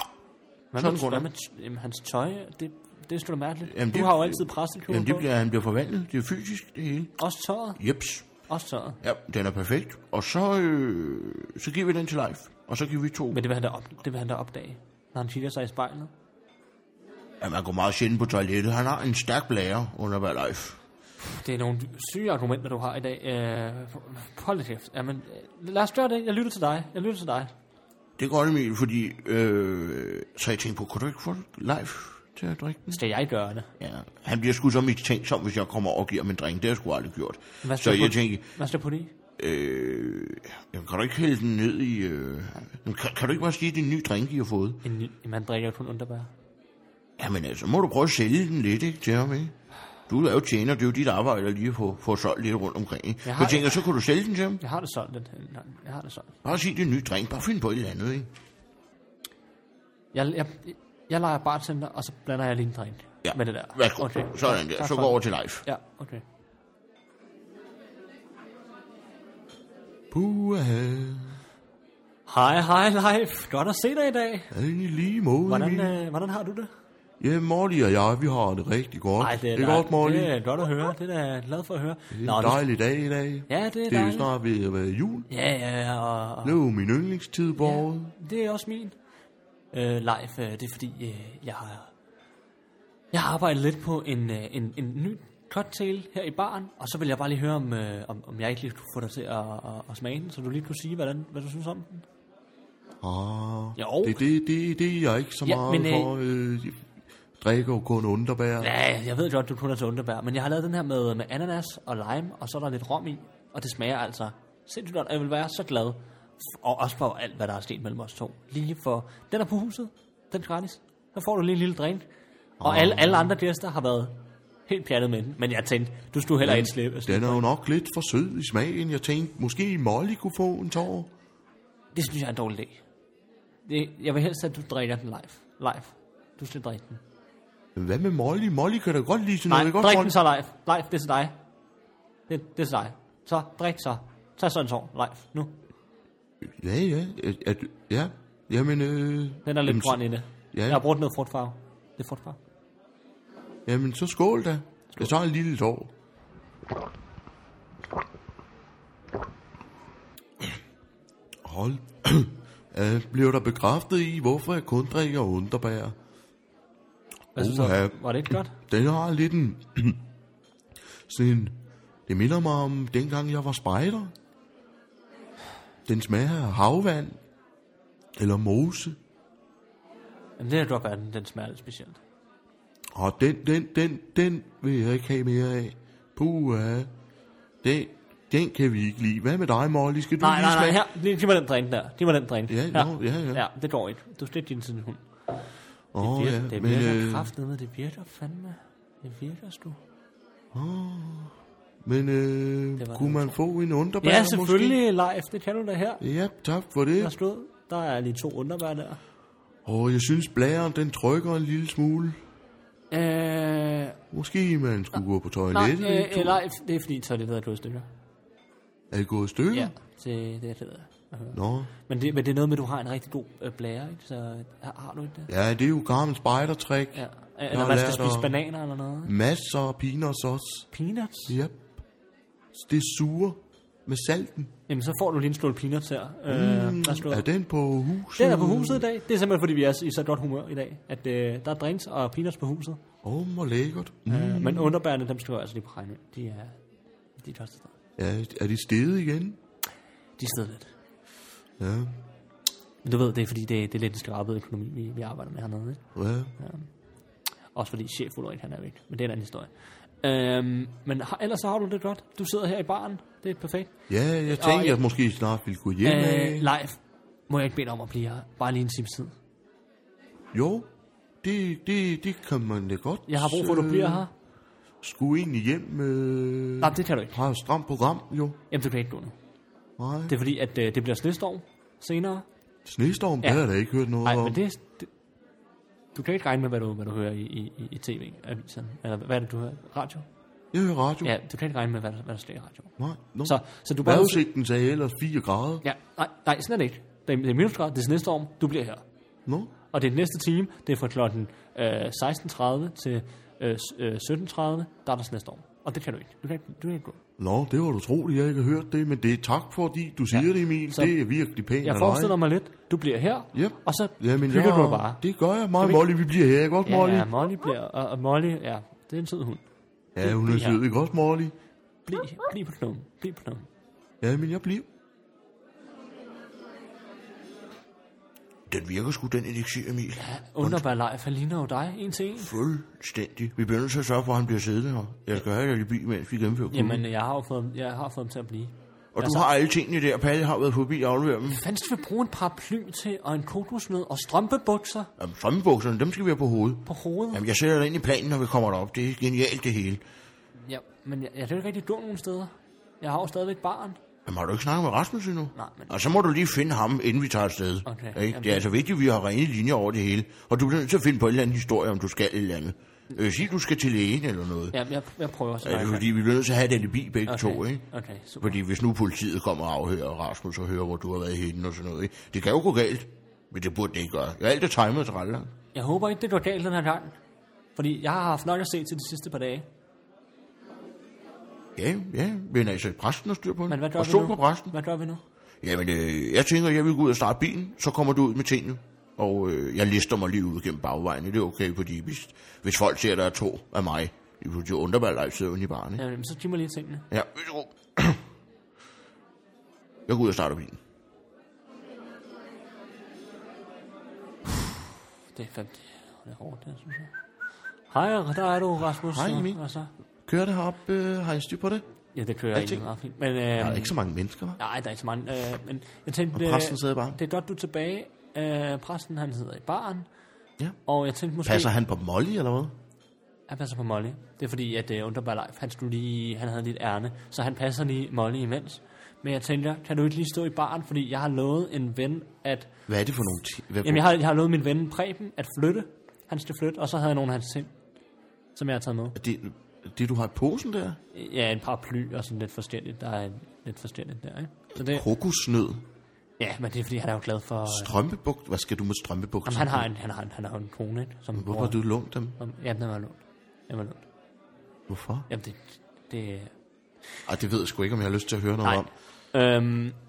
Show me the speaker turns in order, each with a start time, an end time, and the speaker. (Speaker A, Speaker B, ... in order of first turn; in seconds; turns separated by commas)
Speaker A: 0.7-5.3, Speaker B: 0.8-1.3, Speaker B: 3.7-7.2, Speaker A: 7.2-7.8, Speaker B: 7.8-8.3, Speaker A: 8.5-9.0, Speaker B: 9.0-13.4, Speaker A: 13.3-16.1, Speaker B: 17.4-20.8, Speaker A: 21.2-27.5, Speaker B: 28.2-33.0, Speaker A: 32.9-33.7, Speaker B: 33.8-38.5, Speaker A: 37.6-39.1, Speaker B: 39.4-44.8, Speaker A: 44.8-46.3, Speaker B: 47.2-49.5, Speaker B: 50.1-54.6, Speaker A: 53.2-53.9, Speaker A: 54.6-56.4, Speaker B: 56.4-58.3, Speaker A: 60.1-66.2, Speaker B: 63.2-65.7, Speaker B: 70.1-71.4, Speaker A: 72.3-74.5, Speaker B: 74.5-76.0, Speaker A: 75.5-76.7, Speaker B: 77.2-80.3, Speaker A: 79.2-82.6, Speaker B: 82.1-85.3, Speaker A: 83.5-84.3, Speaker A: 85.3-86.6, Speaker B: 86.4-88.1, Speaker A: 87.6-89.0, Speaker A: 89.7-91.9, Speaker A: 93.1-102.0, Speaker B: 103.0-106.8, Speaker A: 103.8-104.2, Speaker A: 105.5-106.1, Speaker B: 107.4-108.7, Speaker A: 108.6-122.0, Speaker B: 122.6-123.3, Speaker A: 122.6-127.5, Speaker B: 126.4-131.1, Speaker A: 131.9-132.8, Speaker A: 133.7-137.0, Speaker B: 137.8-140.2, Speaker A: 139.5-141.3, Speaker A: 142.3-145.6, Speaker B: 146.4-150.0, Speaker A: 149.5-152.4, Speaker B: 150.5-150.8, Speaker B: 153.7-155.9, Speaker B: 161.4-165.9, Speaker A: 167.3-168.6, Speaker B: 167.4-170.0, Speaker B: 171.1-174.1, Speaker B: 175.9-177.2, Speaker B: 178.2-179.0, Speaker A: 180.4-182.0, Speaker B: 182.9-186.9, Speaker B: 187.6-190.8, Speaker A: 190.2-195.1, Speaker B: 192.5-193.4, Speaker B: 195.9-197.3, Speaker A: 196.0-199.8, Speaker B: 200.5-204.8, Speaker A: 202.8-203.4, Speaker A: 204.0-206.0, Speaker B: 206.0-207.2, Speaker A: 207.0-209.0, Speaker B: 209.7-212.2, Speaker A: 212.9-214.0, Speaker B: 214.1-216.4, Speaker A: 215.5-217.9, Speaker B: 218.9-219.7, Speaker A: 219.5-225.3, Speaker B: 221.3-221.7, Speaker B: 225.3-228.3, Speaker A: 226.9-229.1, Speaker B: 229.1-230.7, Speaker A: 230.7-231.4, Speaker B: 231.3-231.7, Speaker B: 232.5-234.5, Speaker A: 234.7-237.3, Speaker B: 236.3-238.9, Speaker A: 238.2-242.8, Speaker B: 243.0-244.8, Speaker A: 244.1-246.6, Speaker A: 247.2-247.7, Speaker B: 248.0-249.4, Speaker A: 250.2-250.7, Speaker B: 251.6-252.0, Speaker A: 252.8-255.8, Speaker B: 255.9-256.4, Speaker A: 256.4-256.7, Speaker A: 257.5-259.5, Speaker A: 260.0-263.7, Speaker B: 263.9-266.5, Speaker A: 264.3-264.8, Speaker A: 265.8-266.8, Speaker A: 267.3-269.1, Speaker B: 270.3-270.7, Speaker B: 271.2-274.1, Speaker A: 273.1-274.1, Speaker B: 274.8-278.4, Speaker A: 276.6-277.2, Speaker A: 278.5-279.1, Speaker B: 279.8-280.1, Speaker A: 280.1-282.2, Speaker B: 282.6-284.4, Speaker A: 284.0-284.9, Speaker A: 285.9-290.1, Speaker B: 290.5-291.1, Speaker A: 291.0-292.7, Speaker B: 292.8-295.6, Speaker A: 293.2-294.2, Speaker A: 295.6-298.8, Speaker B: 299.3-299.5, Speaker A: 299.7-307.0, Speaker B: 307.2-312.2, Speaker A: 310.1-310.9, Speaker A: 311.6-315.0, Speaker B: 313.3-317.1, Speaker A: 315.6-315.9, Speaker A: 316.6-319.4, Speaker B: 319.9-321.3, Speaker A: 320.0-320.6, Speaker A: 321.9-323.5, Speaker B: 324.0-324.7, Speaker B: 328.5-330.6, Speaker A: 330.0-332.3, Speaker B: 332.2-336.8, Speaker A: 336.5-339.3, Speaker B: 338.9-341.4, Speaker A: 341.3-344.9, Speaker B: 345.0-349.8, Speaker A: 346.7-347.2, Speaker A: 350.5-353.8, Speaker B: 354.1-364.6, Speaker A: 355.4-355.7, Speaker A: 357.7-358.5, Speaker A: 364.5-365.9, Speaker B: 365.4-367.6, Speaker A: 367.1-368.4, Speaker B: 368.2-375.3, Speaker A: 375.6-377.0, Speaker A: 377.6-379.5, Speaker B: 381.6-384.5, Speaker A: 383.5-385.0, Speaker B: 385.4-395.8, Speaker A: 395.8-396.9, Speaker B: 396.9-398.0, Speaker B: 399.9-400.6, Speaker A: 405.1-406.9, Speaker A: 407.7-409.7, Speaker B: 408.8-409.4, Speaker B: 410.1-411.6, Speaker A: 411.9-413.8, Speaker B: 412.3-412.7, Speaker B: 413.4-414.4, Speaker A: 414.4-419.9, Speaker B: 416.1-417.0, Speaker A: 420.7-421.5, Speaker B: 421.2-422.6, Speaker A: 423.3-432.5, Speaker B: 432.7-433.9, Speaker A: 433.6-437.5, Speaker A: 438.4-439.0, Speaker B: 439.0-440.8, Speaker A: 440.9-444.9, Speaker B: 444.6-445.6, Speaker A: 446.2-447.7, Speaker B: 447.5-449.7, Speaker A: 449.3-451.6, Speaker B: 451.1-452.2, Speaker A: 452.2-453.9, Speaker B: 454.7-455.1, Speaker A: 455.1-456.3, Speaker B: 457.1-458.7, Speaker A: 458.4-459.8